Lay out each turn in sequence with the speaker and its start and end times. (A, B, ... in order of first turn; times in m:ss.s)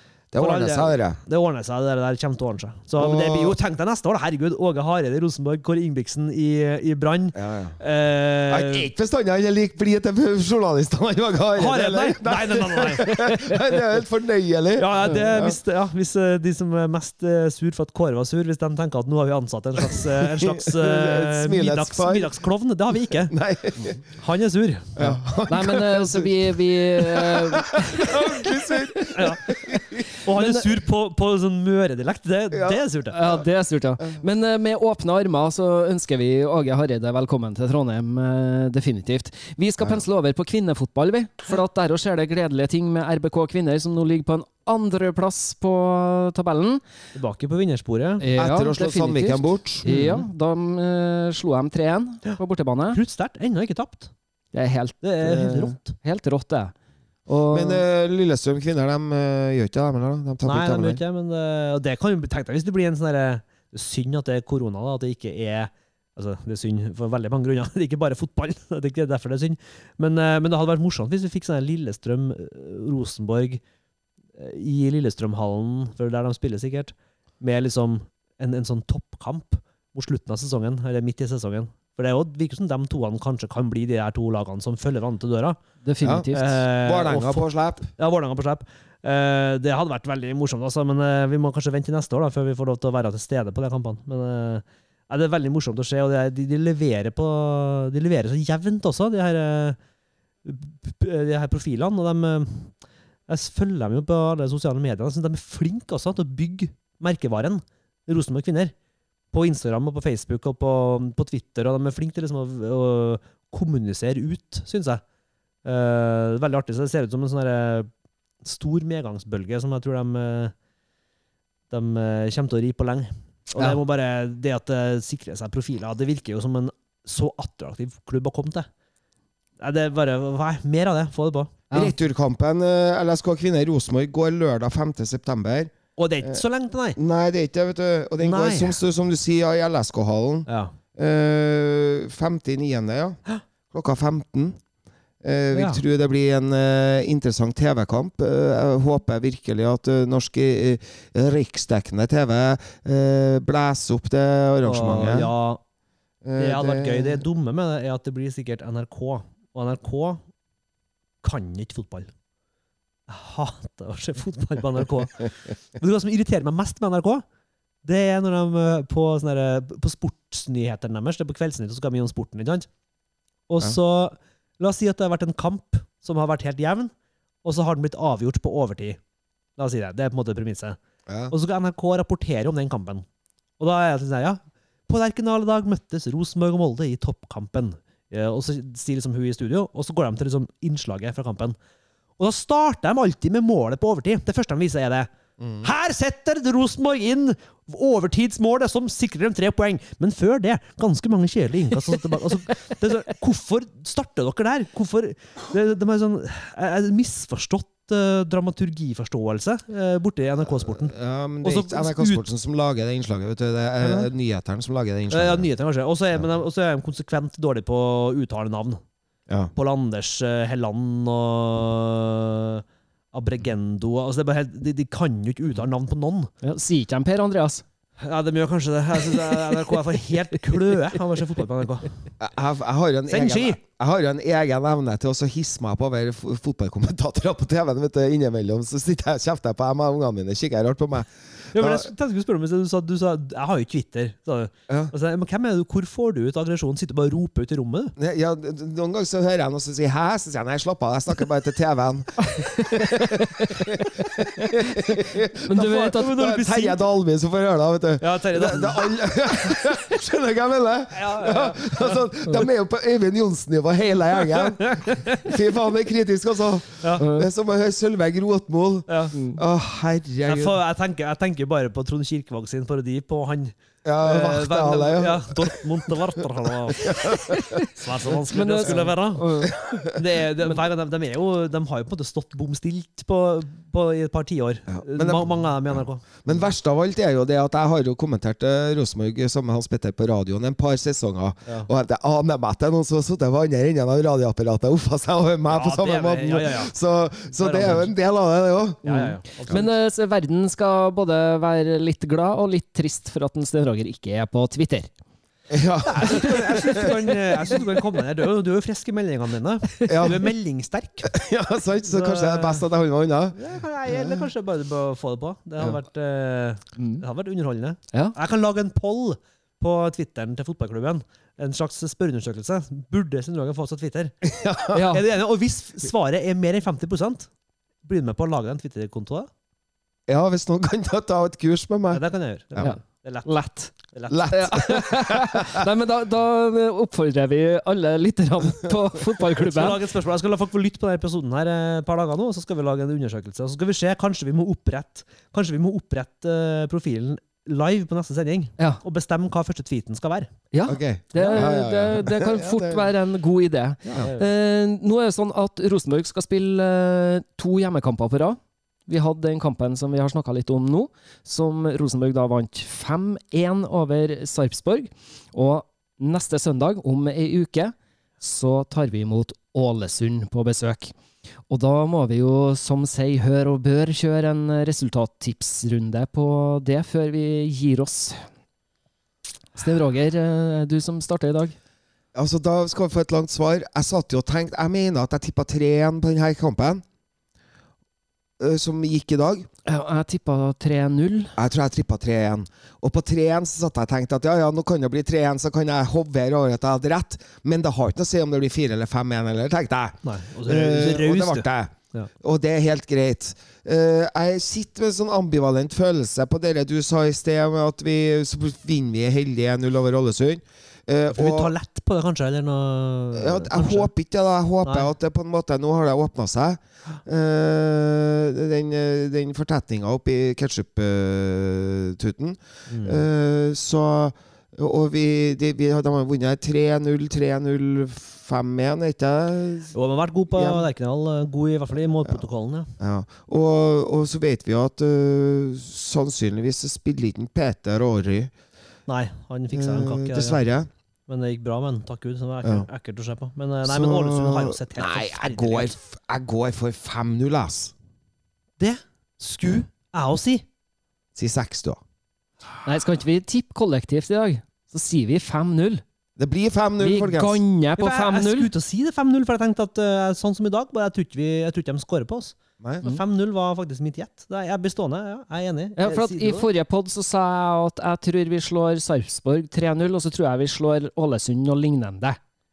0:00.3-0:01.2 A
0:00.4-0:08.9 B
0:03.0-0:03.6 A
0:07.3-0:07.8 A
0:08.5-0:15.6 A
0:11.6-0:13.1 B
0:13.2-0:13.5 C
0:14.8-0:23.3 B
0:19.8-0:22.3 A
0:23.3-0:24.0 A
0:24.1-0:25.2 B
0:25.0-0:30.0 A
0:25.5-0:30.6 C
0:29.2-0:29.4 B
0:30.1-0:33.2 B
0:32.5-0:33.4 A
0:33.1-0:46.8 C
0:47.1-0:48.3 B
0:48.2-0:53.0 C
0:48.4-0:49.8 A
0:49.8-0:50.2 B
0:52.9-0:54.1 B
0:54.5-0:56.7 C
0:55.0-0:55.9 B
0:57.3-0:57.8 C
0:57.5-1:01.0 A
1:00.4-1:13.6 B
1:14.4-1:25.6 B
1:25.8-1:26.6 C
1:26.0-1:27.9 A
1:26.3-1:39.8 B
1:40.4-1:42.8 B
1:43.3-1:48.7 B
1:49.3-1:55.0 B
1:55.6-1:57.9 B
1:58.4-2:00.5 B
2:01.7-2:08.7 B
2:09.6-2:11.6 B
2:11.7-2:11.9 C
2:11.7-2:16.4 A
2:16.0-2:17.0 B
2:17.0-2:23.2 A
2:18.2-2:18.8 B
2:20.5-2:20.7 B
2:23.7-2:24.6 A
2:25.2-2:35.3 A
2:25.5-2:25.8 B
2:34.6-2:35.6 B
2:36.2-2:37.2 A
2:36.4-2:40.2 B
2:41.2-2:42.1 B
2:43.1-2:47.2 B
2:47.8-2:52.7 B
2:53.5-2:56.9 B
2:57.4-2:59.0 B
2:59.6-3:00.8 B
3:01.1-3:01.3 A
3:01.3-3:03.0 B
3:03.6-3:11.6 B
3:12.2-3:15.1 B
3:15.4-3:15.7 A
3:15.6-3:32.2 B
3:30.7-3:35.5 A
3:33.8-3:34.1 B
3:35.1-3:38.8 B
3:39.5-3:46.3 B
3:46.4-3:47.6 C
3:48.0-3:51.9 B
3:52.2-4:01.9 A
3:53.1-3:53.6 B
4:01.5-4:07.9 B
4:08.0-4:30.6 A
4:12.2-4:16.2 C
4:15.6-4:16.8 B
4:18.0-4:18.9 B
4:20.9-4:22.0 B
4:24.3-4:25.3 B
4:27.0-4:27.3 C
4:28.9-4:29.1 B
4:29.1-4:29.4 C
4:30.2-4:46.3 B
4:33.8-4:35.9 A
4:36.8-4:37.7 A
4:37.1-4:37.6 C
4:38.3-4:39.6 C
4:39.5-4:40.0 A
4:44.7-4:58.8 A
4:55.5-4:56.7 B
4:57.4-4:57.9 B
4:58.8-4:59.7 B
4:58.8-5:04.9 C
5:05.5-5:07.6 A
5:05.9-5:11.1 B
5:09.9-5:10.2 A
5:11.1-5:14.2 A
5:11.9-5:12.6 B
5:13.3-5:24.2 B
5:24.2-5:24.8 A
5:24.7-5:25.0 C
5:24.9-5:27.3 B
5:27.8-5:29.3 B
5:30.1-5:32.0 A
5:31.9-5:34.4 B
5:32.6-5:33.8 C
5:34.1-5:35.7 A
5:34.3-5:39.8 C
5:39.4-5:50.3 B
5:50.5-6:10.9 C
5:50.7-5:52.9 A
5:51.2-5:51.4 B
5:53.8-5:54.2 B
6:11.5-6:18.2 C
6:19.5-6:21.6 C
6:22.1-6:26.8 A
6:28.4-6:29.5 A
6:29.6-6:31.3 C
6:31.4-6:51.5 A
6:40.0-6:42.1 B
6:51.1-6:53.9 B
6:53.1-7:09.7 A
6:54.6-6:54.9 B
7:02.7-7:03.0 B
7:09.7-7:12.7 B
7:10.3-7:10.6 A
7:12.8-7:18.3 A
7:18.9-7:20.4 B
7:19.5-7:20.7 A
7:21.1-7:25.7 B
7:23.6-7:27.7 A
7:28.6-7:30.4 B
7:31.1-7:31.8 A
7:32.6-7:35.8 C
7:36.2-7:37.4 A
7:36.8-7:38.5 C
7:37.8-7:46.4 B
7:45.8-7:52.2 C